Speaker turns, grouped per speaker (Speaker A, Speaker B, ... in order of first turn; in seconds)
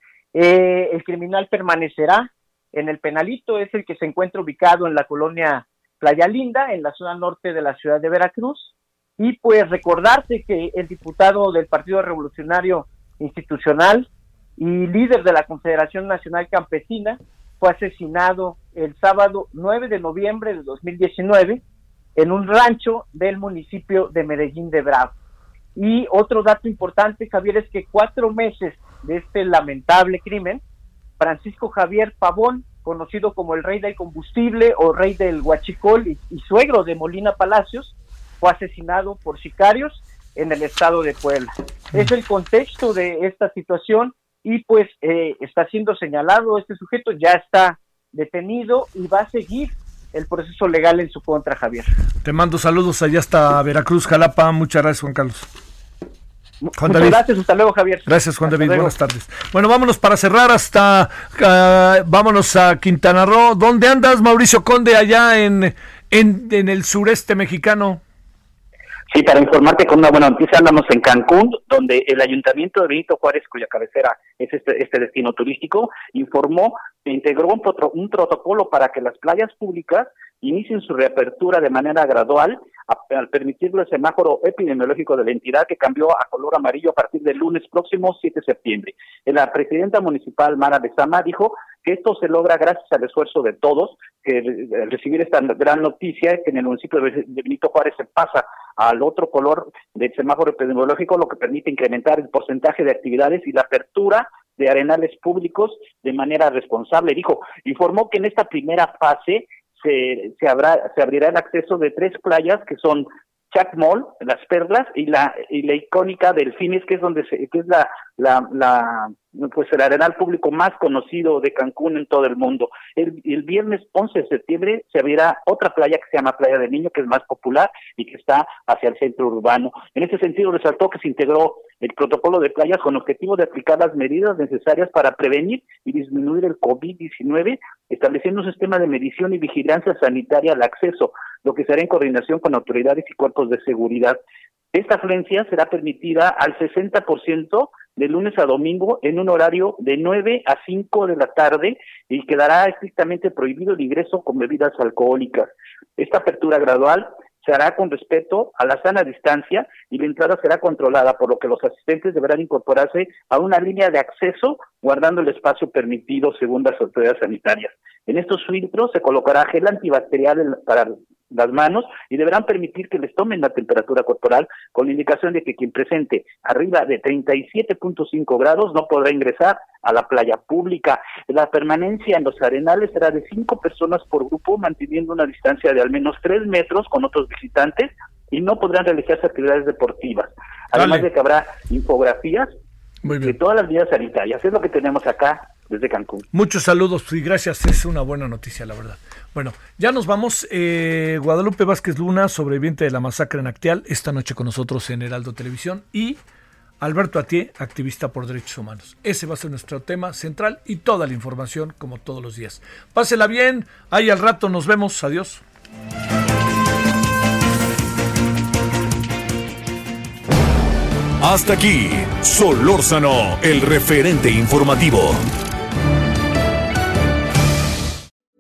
Speaker A: 0.3-21.6, 22.2-25.1, 25.8-30.6, 31.2-51.9, 56.6-59.0
Speaker B: 52.2-55.5, 56.8-57.2, 58.1-68.0, 190.8-191.1, 193.0-193.4, 196.3-206.2, 206.8-215.4
Speaker C: 69.1-144.2, 144.7-192.5, 193.2-196.3
Speaker D: 221.2-225.2